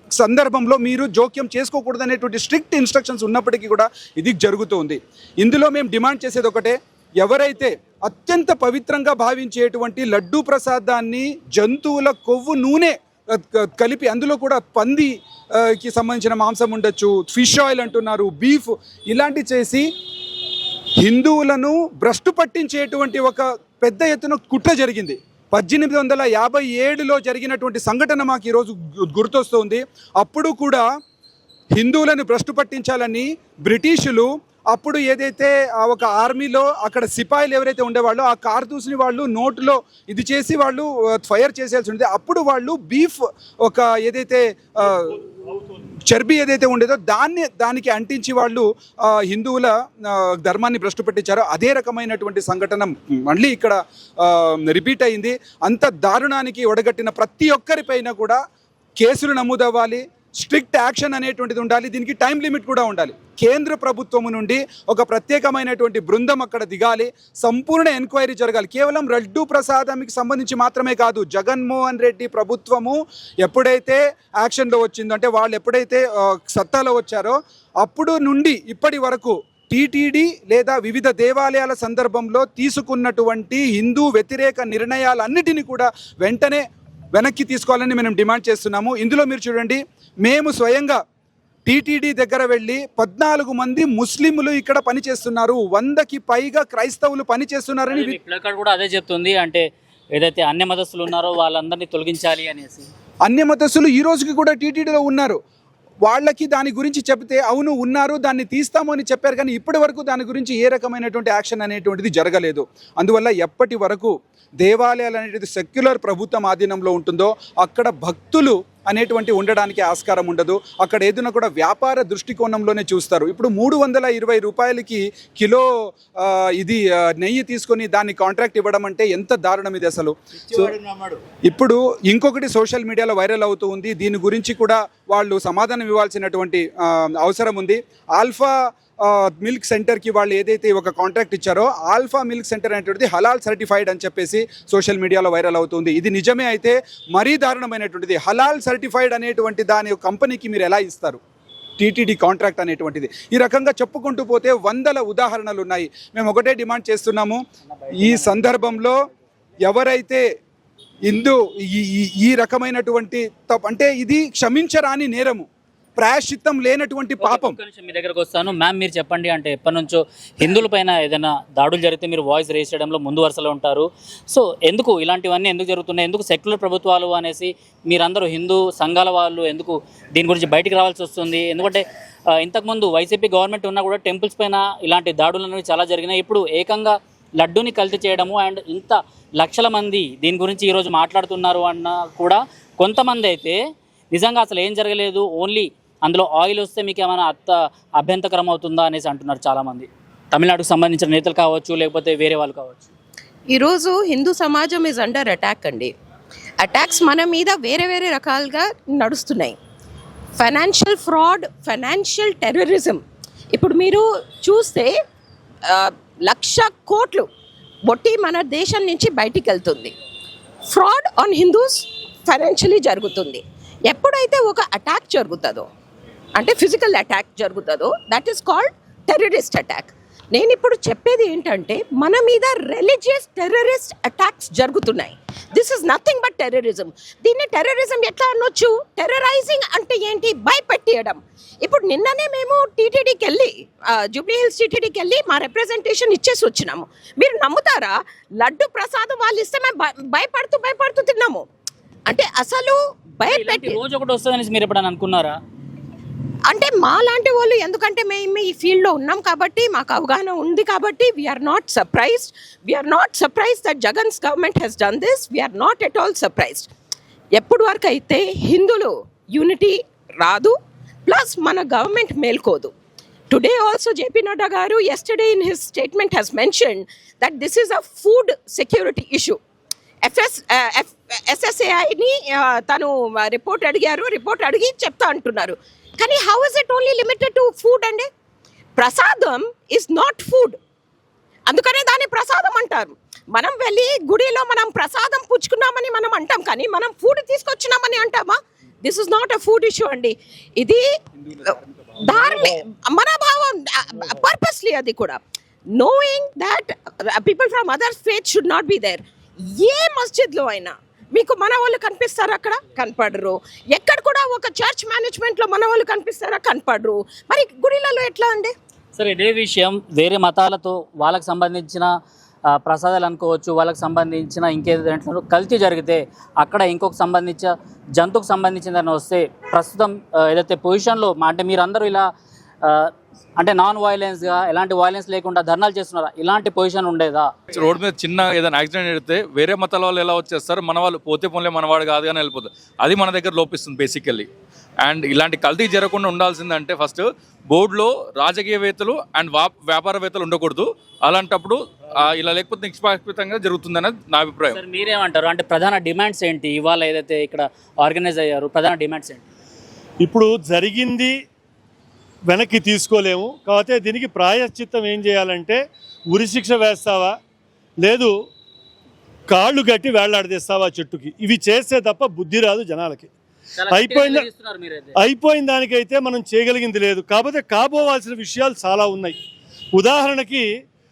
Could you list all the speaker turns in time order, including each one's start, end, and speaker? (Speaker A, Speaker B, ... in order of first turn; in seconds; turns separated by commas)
Speaker A: 0.2-19.9, Speaker A: 21.0-30.8, Speaker A: 31.8-45.2, Speaker A: 46.1-58.4, Speaker A: 59.0-91.0, Speaker A: 91.7-98.2, Speaker B: 97.9-102.9, Speaker A: 103.2-105.4, Speaker A: 106.0-125.6, Speaker A: 126.2-130.7, Speaker A: 131.5-151.2, Speaker A: 151.8-157.4, Speaker B: 157.8-158.8, Speaker A: 158.0-158.9, Speaker A: 159.6-160.2, Speaker A: 161.1-167.6, Speaker B: 167.2-181.8, Speaker B: 182.4-193.6, Speaker B: 194.1-202.9, Speaker C: 203.5-205.9, Speaker C: 206.6-209.6, Speaker C: 210.4-213.0, Speaker C: 213.5-215.0, Speaker C: 215.7-217.3, Speaker C: 217.9-219.9, Speaker C: 220.7-225.7, Speaker C: 226.4-251.4, Speaker C: 252.1-253.8, Speaker B: 253.2-255.4, Speaker C: 256.5-266.7, Speaker C: 267.4-270.6, Speaker C: 271.1-272.7, Speaker C: 273.3-279.4, Speaker C: 280.0-288.1, Speaker C: 288.8-290.6, Speaker C: 291.5-300.9, Speaker C: 301.5-305.2, Speaker C: 305.8-318.5, Speaker B: 319.0-321.9, Speaker B: 322.5-332.1, Speaker B: 332.6-337.3, Speaker D: 337.5-344.3, Speaker D: 344.8-354.6, Speaker B: 354.5-359.2, Speaker E: 360.0-361.1, Speaker E: 362.3-365.6, Speaker E: 366.1-367.2, Speaker E: 367.8-368.1, Speaker E: 369.3-373.1, Speaker B: 373.6-375.0, Speaker E: 373.7-374.3, Speaker E: 375.0-379.2, Speaker E: 379.8-380.5